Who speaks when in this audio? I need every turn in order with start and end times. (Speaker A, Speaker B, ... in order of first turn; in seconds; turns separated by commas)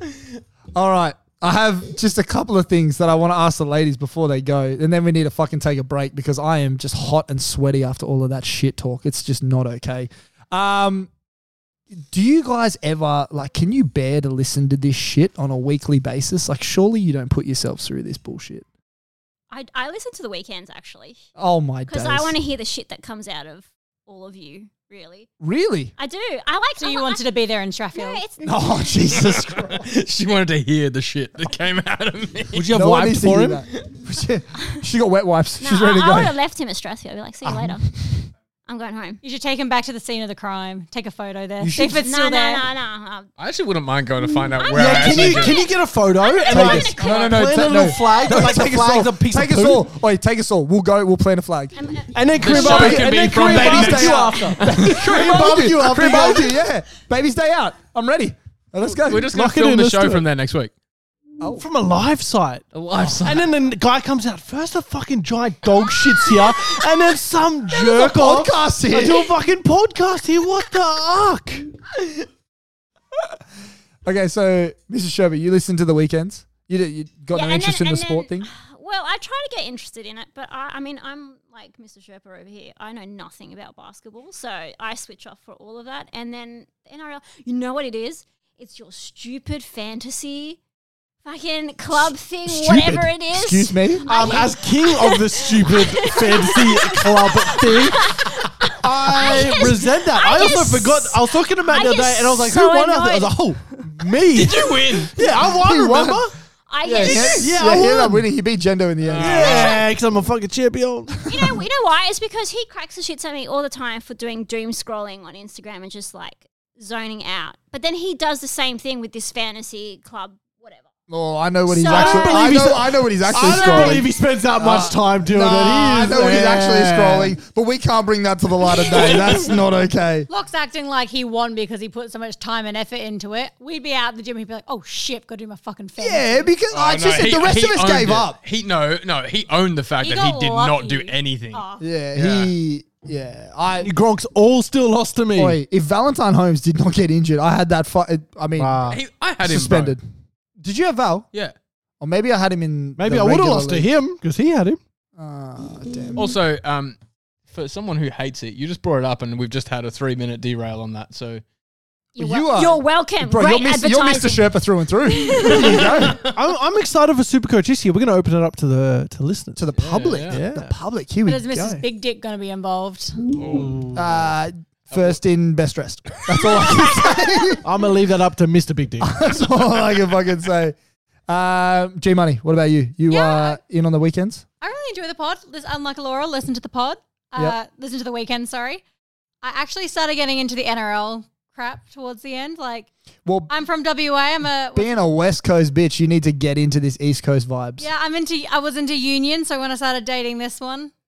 Speaker A: 0.7-11.1, Speaker A: 11.9-18.6, Speaker B: 19.5-21.2, Speaker A: 21.4-22.3, Speaker B: 21.9-25.3, Speaker A: 25.4-25.9, Speaker B: 26.0-27.2, Speaker C: 26.8-28.2, Speaker B: 27.9-29.1, Speaker A: 28.4-29.9, Speaker D: 29.1-32.7, Speaker E: 32.5-33.6, Speaker A: 32.7-36.4, Speaker B: 35.6-37.8, Speaker A: 37.4-38.2, Speaker B: 38.6-39.2, Speaker C: 39.2-42.6, Speaker B: 41.8-43.3, Speaker D: 43.4-45.6, Speaker E: 44.7-49.9, Speaker B: 44.8-47.4, Speaker A: 46.5-51.8, Speaker B: 51.7-52.1, Speaker E: 52.1-56.5, Speaker D: 52.4-56.4, Speaker A: 52.5-59.3, Speaker D: 58.8-60.7, Speaker E: 59.2-60.2, Speaker A: 61.4-61.6, Speaker E: 61.5-62.6, Speaker D: 62.7-63.5, Speaker E: 63.2-71.7, Speaker A: 67.7-69.3, Speaker A: 74.0-78.5, Speaker B: 77.3-90.6, Speaker B: 91.2-103.3, Speaker A: 91.9-94.1, Speaker E: 94.1-98.2, Speaker E: 98.8-106.3, Speaker D: 104.3-105.1, Speaker A: 105.4-106.3, Speaker B: 106.7-107.5, Speaker A: 106.8-109.8, Speaker E: 107.0-108.2, Speaker D: 109.0-109.7, Speaker E: 109.2-111.6, Speaker B: 109.4-109.8, Speaker B: 111.2-120.8, Speaker A: 121.1-130.3, Speaker B: 121.7-122.7, Speaker E: 121.9-127.3, Speaker D: 128.9-129.5, Speaker C: 130.3-136.5, Speaker A: 136.0-138.4, Speaker D: 136.7-141.6, Speaker C: 140.0-141.8, Speaker A: 141.8-143.9, Speaker D: 142.2-142.5, Speaker E: 143.8-145.6, Speaker A: 145.3-148.8, Speaker E: 148.6-149.0, Speaker D: 148.9-149.9, Speaker A: 149.4-150.0, Speaker A: 150.6-151.3, Speaker A: 152.0-153.9, Speaker E: 153.0-154.8, Speaker A: 155.2-156.2, Speaker D: 156.2-157.0, Speaker D: 157.5-161.4, Speaker B: 162.2-164.6, Speaker A: 162.2-166.2, Speaker B: 165.1-165.8, Speaker D: 165.5-166.3, Speaker E: 166.2-169.7, Speaker A: 169.6-171.8, Speaker D: 169.8-170.4, Speaker E: 170.3-170.7, Speaker C: 171.2-173.2, Speaker D: 173.3-174.2, Speaker E: 173.5-173.9, Speaker A: 173.9-177.6, Speaker D: 174.9-175.2, Speaker D: 176.3-176.9, Speaker E: 177.6-179.2, Speaker A: 179.0-180.8, Speaker A: 181.3-184.4, Speaker C: 183.1-183.6, Speaker C: 184.6-188.8, Speaker C: 189.4-192.9, Speaker A: 193.2-193.5, Speaker C: 193.5-195.0, Speaker A: 194.7-197.9, Speaker C: 197.8-200.9